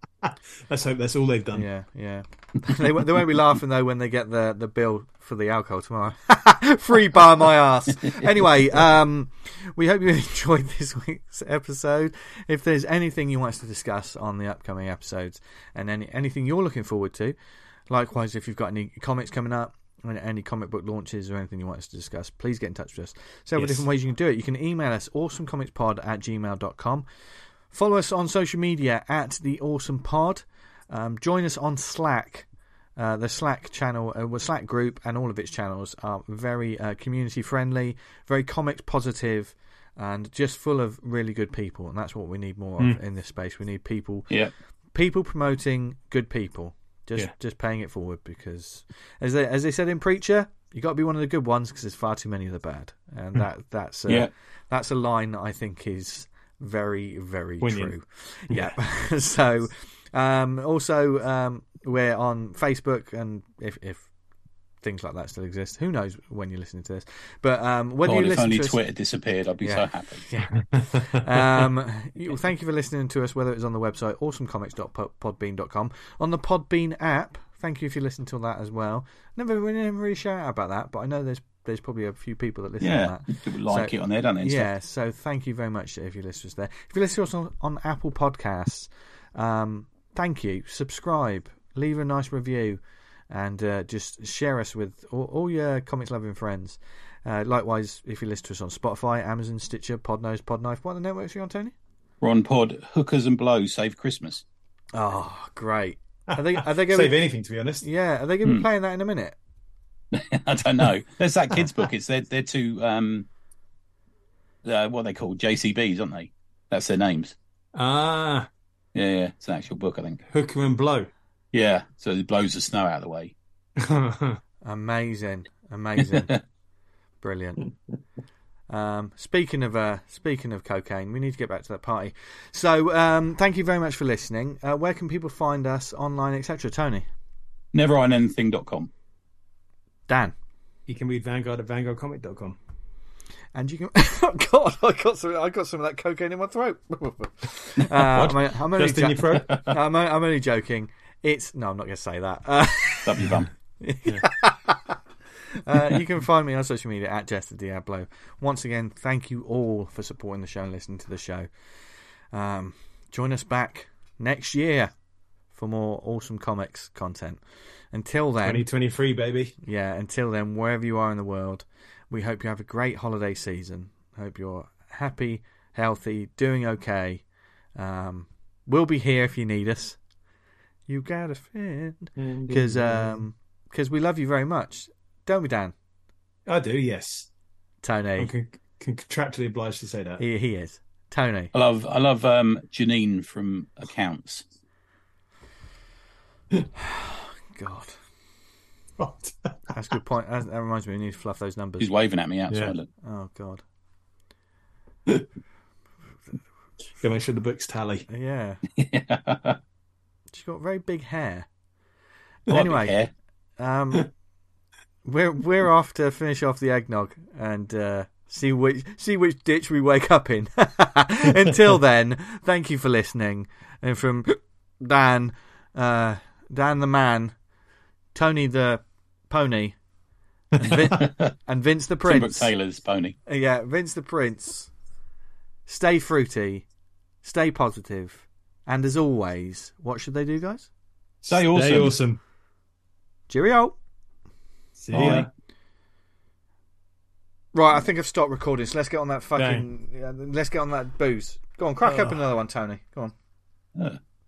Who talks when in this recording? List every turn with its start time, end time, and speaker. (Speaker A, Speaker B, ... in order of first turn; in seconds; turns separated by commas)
Speaker A: 0.2-1.7, Speaker B: 1.5-17.4, Speaker B: 17.9-27.1, Speaker B: 27.7-44.3, Speaker B: 44.9-64.1, Speaker A: 57.6-57.9, Speaker A: 58.5-58.8, Speaker B: 64.8-68.8, Speaker C: 68.0-70.2, Speaker B: 69.6-92.8, Speaker C: 82.8-84.7, Speaker B: 93.3-101.7, Speaker C: 102.2-104.4, Speaker B: 104.9-107.2, Speaker A: 106.3-107.9, Speaker B: 107.8-109.4, Speaker C: 110.1-113.3, Speaker C: 114.6-117.3, Speaker A: 117.7-118.5, Speaker C: 119.0-120.2, Speaker A: 120.3-121.1, Speaker C: 121.5-123.3, Speaker A: 123.8-124.4, Speaker B: 124.7-126.3, Speaker C: 126.1-126.4, Speaker B: 127.2-127.7, Speaker B: 128.7-137.1, Speaker C: 137.7-138.9, Speaker B: 140.1-140.3, Speaker A: 140.9-142.6, Speaker B: 143.6-153.3, Speaker C: 148.0-148.4, Speaker A: 148.8-149.6, Speaker C: 149.3-149.7, Speaker C: 153.0-153.5, Speaker B: 153.8-155.0, Speaker B: 155.5-161.5, Speaker B: 162.3-164.9, Speaker B: 165.5-168.7, Speaker A: 168.4-169.5, Speaker B: 169.6-177.2, Speaker B: 177.8-180.0, Speaker B: 180.9-185.7, Speaker A: 182.2-183.2, Speaker A: 186.5-187.3, Speaker B: 187.8-188.3, Speaker A: 188.2-190.2, Speaker B: 190.2-191.5, Speaker C: 191.5-194.4, Speaker B: 196.8-198.0, Speaker A: 199.0-199.7, Speaker B: 199.7-201.9, Speaker C: 201.8-202.9, Speaker B: 203.0-203.6, Speaker A: 207.0-208.1, Speaker B: 208.1-208.6, Speaker C: 208.8-209.6, Speaker B: 210.3-211.5, Speaker B: 212.5-213.0, Speaker C: 212.5-213.1, Speaker B: 213.6-214.1, Speaker B: 215.1-227.3, Speaker B: 228.2-229.8, Speaker B: 230.6-232.5, Speaker C: 232.0-233.2, Speaker B: 233.3-234.7, Speaker B: 235.7-236.7, Speaker B: 237.2-240.7, Speaker A: 241.2-242.2, Speaker C: 241.3-242.0, Speaker B: 243.3-243.8, Speaker A: 244.8-245.3, Speaker C: 244.9-245.3, Speaker B: 247.5-253.1, Speaker A: 249.4-249.7, Speaker A: 251.8-252.2